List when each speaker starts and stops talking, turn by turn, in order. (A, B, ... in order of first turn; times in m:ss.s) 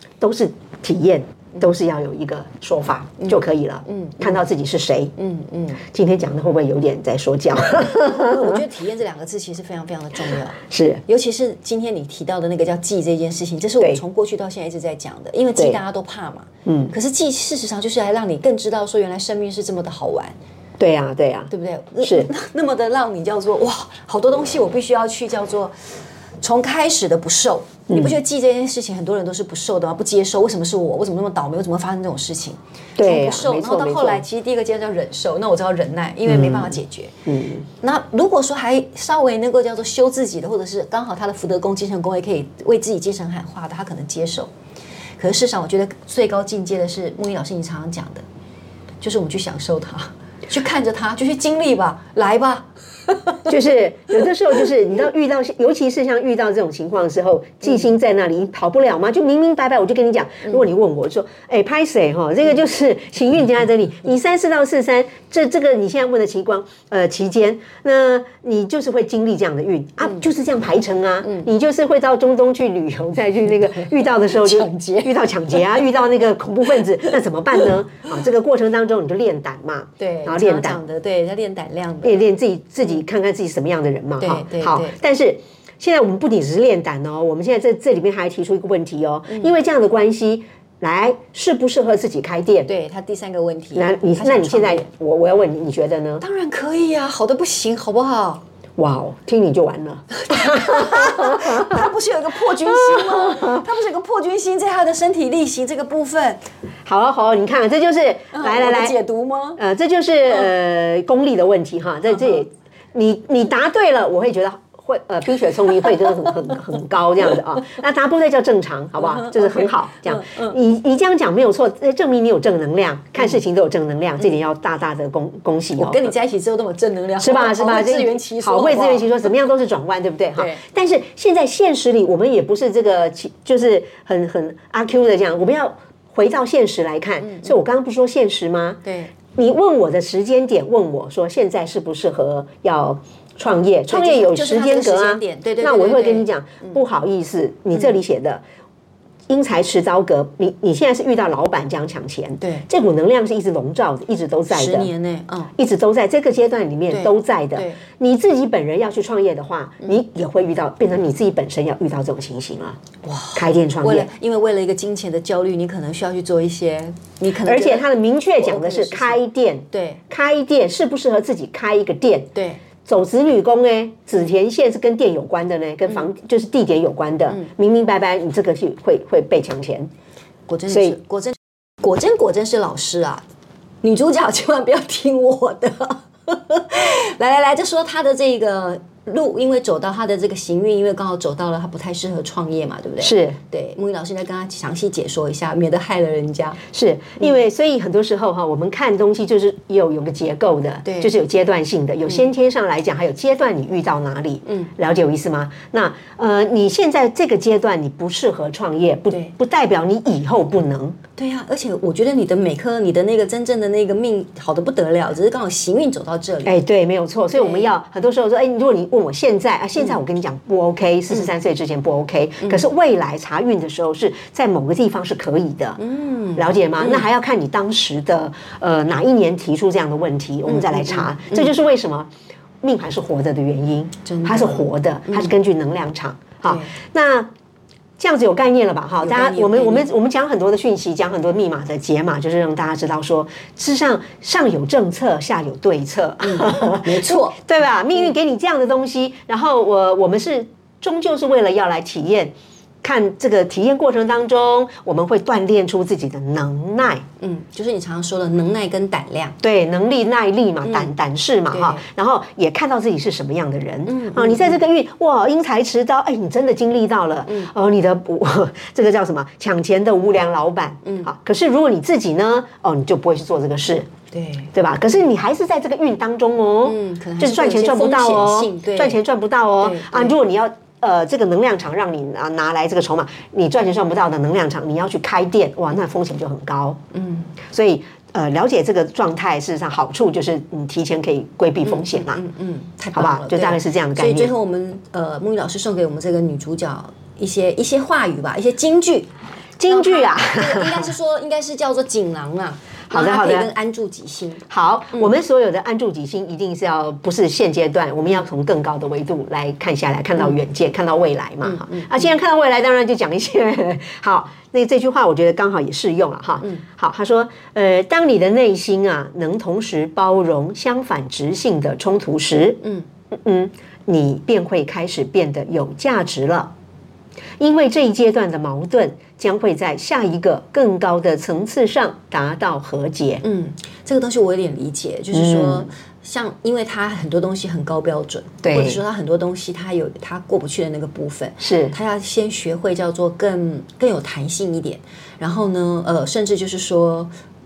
0:00.2-0:05.1 A
0:03.2-0:04.4 B
0:05.2-0:05.8 B
0:05.8-0:08.6 A
0:08.0-0:20.4 B
0:10.7-0:11.0 A
0:16.6-0:16.9 A
0:20.8-0:22.3 A
0:21.5-0:25.7 B
0:26.4-0:37.2 B
0:27.9-0:28.2 A
0:33.0-0:34.2 A
0:36.2-0:37.6 A
0:37.8-0:44.5 B
0:45.2-0:48.2 B
0:49.0-0:53.5 B
0:53.5-1:20.8 A
1:11.2-1:11.5 B
1:13.7-1:15.9 B
1:20.0-1:22.2 B
1:22.0-1:32.7 A
1:24.2-1:25.0 B
1:32.7-1:34.9 B
1:33.7-1:36.2 A
1:36.2-1:38.4 B
1:38.8-1:41.9 A
1:40.1-1:46.4 B
1:42.5-1:43.6 A
1:46.8-1:49.0 A
1:48.3-1:49.6 B
1:49.6-2:06.1 A
1:59.0-2:00.6 B
2:05.8-2:09.2 B
2:07.2-2:18.8 A
2:10.4-2:10.6 B
2:17.2-2:17.6 B
2:18.8-2:19.1 B
2:19.3-2:28.4 A
2:23.9-2:26.8 B
2:29.3-2:34.9 A
2:32.4-2:32.7 B
2:34.5-2:35.5 B
2:35.6-2:42.8 A
2:36.9-2:37.8 B
2:43.0-2:47.9 B
2:43.3-2:44.1 A
2:47.4-2:52.3 A
2:48.4-2:49.2 B
2:49.7-2:50.0 B
2:52.3-2:52.6 B
2:52.8-2:59.9 A
3:00.5-3:03.2 B
3:00.7-3:01.0 A
3:03.8-3:16.6 B
3:13.0-3:13.4 A
3:16.7-3:31.0 A
3:20.8-3:21.1 B
3:31.2-3:36.6 B
3:36.4-3:45.8 A
3:37.3-3:37.7 B
3:45.8-3:47.1 B
3:46.4-3:52.1 A
3:50.5-3:51.5 B
3:52.6-3:57.3 A
3:54.0-3:55.3 B
3:58.0-4:12.3 A
3:59.0-3:59.9 B
4:06.2-4:07.4 B
4:12.8-4:17.0 A
4:17.2-4:19.4 B
4:19.4-4:33.9 A
4:20.6-4:20.9 B
4:21.5-4:21.8 B
4:23.8-4:24.6 B
4:30.8-4:31.1 B
4:34.1-4:34.5 B
4:34.5-4:46.8 A
4:36.6-4:39.0 B
4:39.6-4:40.2 B
4:46.9-4:47.3 B
4:47.5-4:52.2 A
4:51.6-4:59.1 B
4:52.9-4:54.3 A
4:59.6-5:00.9 A
4:59.6-5:05.1 B
5:02.9-5:03.5 A
5:04.5-5:26.5 A
5:11.4-5:12.0 B
5:22.6-5:22.9 B
5:27.4-5:33.2 A
5:33.2-5:47.1 B
5:35.1-5:35.7 A
5:38.4-5:38.8 A
5:41.4-5:41.8 A